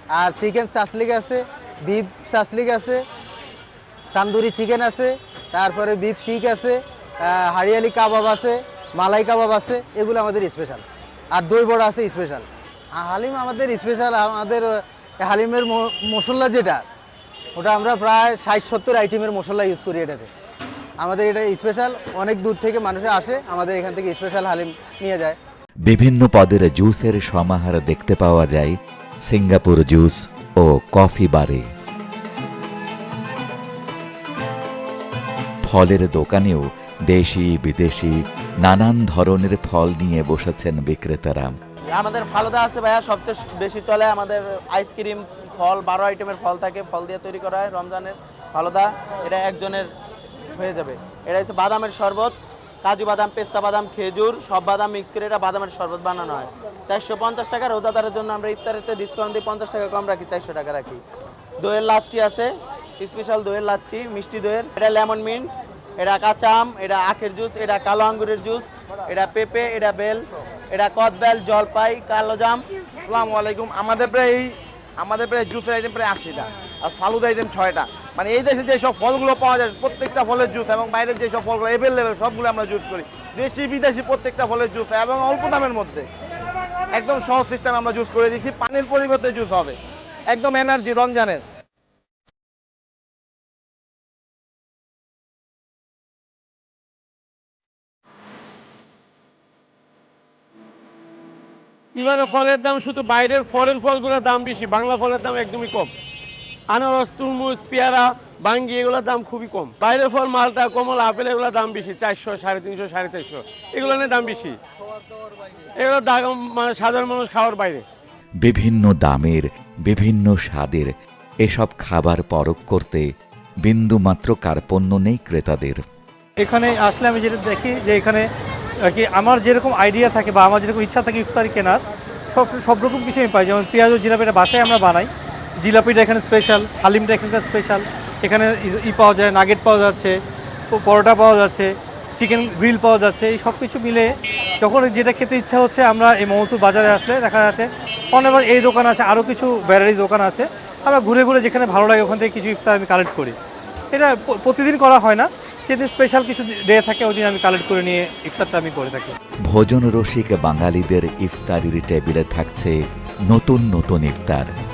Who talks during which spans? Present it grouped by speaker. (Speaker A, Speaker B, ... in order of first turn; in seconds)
Speaker A: 0.1-3.0, 4.1-14.7, 15.2-16.8, 17.6-20.3, 21.0-25.4
Speaker B: 25.9-31.6, 35.6-41.5, 118.4-123.1, 123.6-125.8, 159.4-164.5
Speaker C: 41.9-49.9, 50.5-61.0, 61.6-70.2, 70.7-72.6
Speaker D: 73.0-86.1, 86.9-91.4
Speaker E: 102.0-105.9, 106.7-114.6, 115.8-117.8
Speaker F: 126.4-128.3, 128.8-140.2, 140.7-153.4, 153.9-159.2